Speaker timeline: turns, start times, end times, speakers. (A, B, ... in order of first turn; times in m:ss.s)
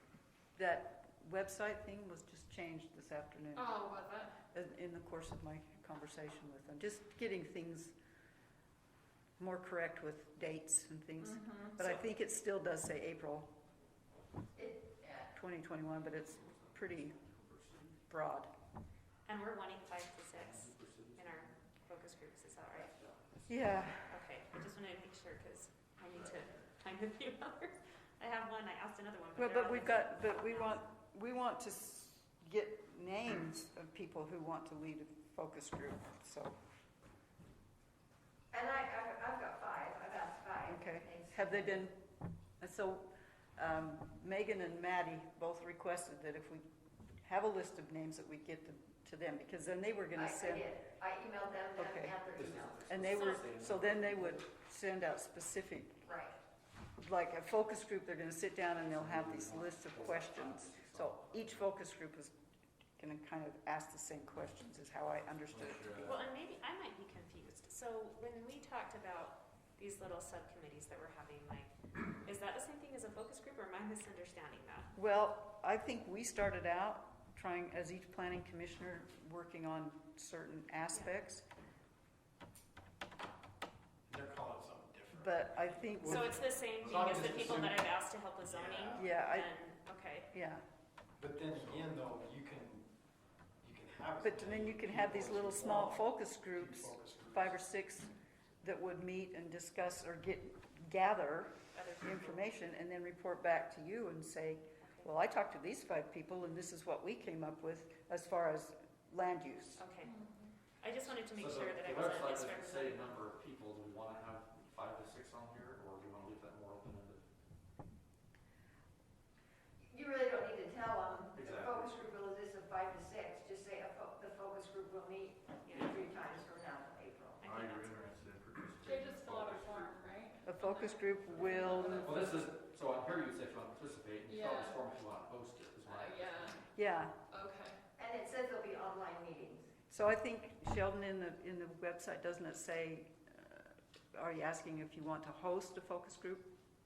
0:00.5-0:07.9 A
0:09.4-0:13.5 A
0:14.6-0:15.3 B
0:15.3-0:17.2 A
0:16.4-0:18.0 C
0:18.1-0:18.5 A
0:19.2-0:22.9 D
0:20.3-0:21.6 C
0:22.8-0:23.6 C
0:23.5-0:24.2 A
0:24.1-0:30.8 D
0:26.1-0:26.4 E
0:29.4-0:36.6 A
0:38.5-0:41.7 B
0:40.6-0:42.0 A
0:42.6-0:46.6 A
0:47.2-0:50.7 A
0:50.1-0:52.9 B
0:51.8-0:52.2 A
0:52.3-0:54.4 C
0:52.9-0:56.1 A
0:56.0-0:56.4 B
0:57.0-1:02.3 A
0:58.9-1:01.7 C
1:03.0-1:06.2 A
1:05.5-1:06.2 E
1:06.0-1:14.9 D
1:15.0-1:21.4 A
1:24.1-1:29.1 F
1:25.1-1:26.4 A
1:26.0-1:30.3 D
1:28.9-1:29.5 A
1:30.3-1:30.6 A
1:31.2-1:32.9 F
1:33.6-1:37.6 F
1:34.2-1:49.8 A
1:41.7-1:42.4 D
1:44.8-1:45.1 D
1:49.8-1:50.3 D
1:50.8-1:53.2 D
1:51.4-1:57.2 C
1:59.8-2:07.4 B
2:01.3-2:01.9 C
2:05.6-2:06.2 D
2:07.4-2:08.2 D
2:07.4-2:10.0 E
2:08.8-2:12.2 G
2:10.4-2:12.3 A
2:11.3-2:11.6 E
2:11.9-2:16.6 C
2:14.3-2:14.7 G
2:16.0-2:16.5 G
2:16.7-2:17.2 A
2:18.0-2:19.7 B
2:19.9-2:26.5 A